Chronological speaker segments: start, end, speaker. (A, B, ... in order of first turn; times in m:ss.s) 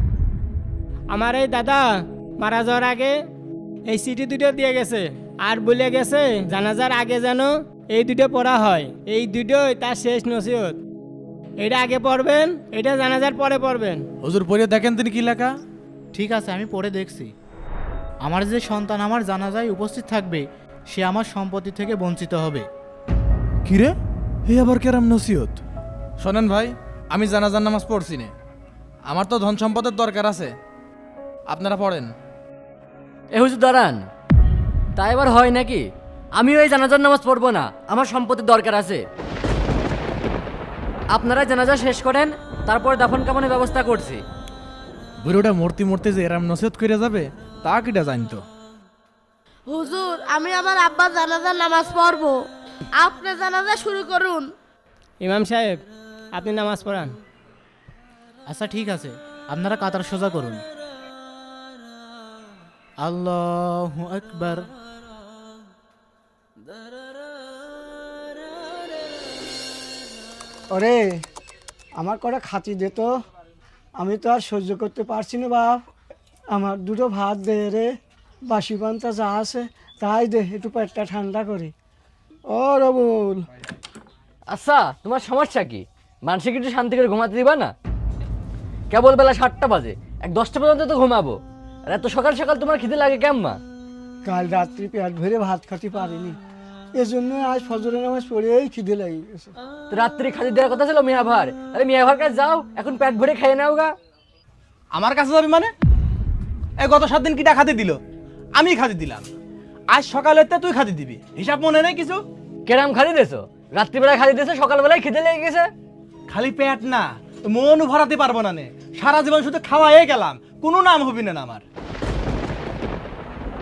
0:01.1-0:03.1 A
0:03.9-0:10.8 A
0:11.6-0:14.0 A
0:14.2-0:15.5 B
0:16.1-0:17.3 C
0:18.2-0:22.6 C
0:23.6-0:23.9 B
0:24.5-0:25.6 B
0:26.2-0:28.3 B
0:29.1-0:30.5 B
0:31.5-0:32.1 B
0:33.3-0:34.0 D
0:35.0-0:39.0 D
0:41.1-0:44.2 D
0:45.2-0:48.4 B
0:49.7-0:54.5 E
0:55.2-0:55.8 A
0:56.3-0:57.1 A
0:58.5-1:00.6 C
1:03.0-1:04.6 C
1:10.7-1:11.2 F
1:12.0-1:13.1 F
1:14.0-1:15.8 F
1:16.5-1:17.9 F
1:18.5-1:21.7 F
1:22.5-1:23.4 F
1:24.5-1:27.7 D
1:28.9-1:33.6 D
1:34.3-1:36.4 F
1:37.0-1:39.5 F
1:39.9-1:43.9 D
1:44.9-1:45.7 B
1:46.8-1:48.0 B
1:48.6-1:49.3 B
1:49.9-1:52.2 B
1:52.6-1:55.7 D
1:56.3-2:01.6 B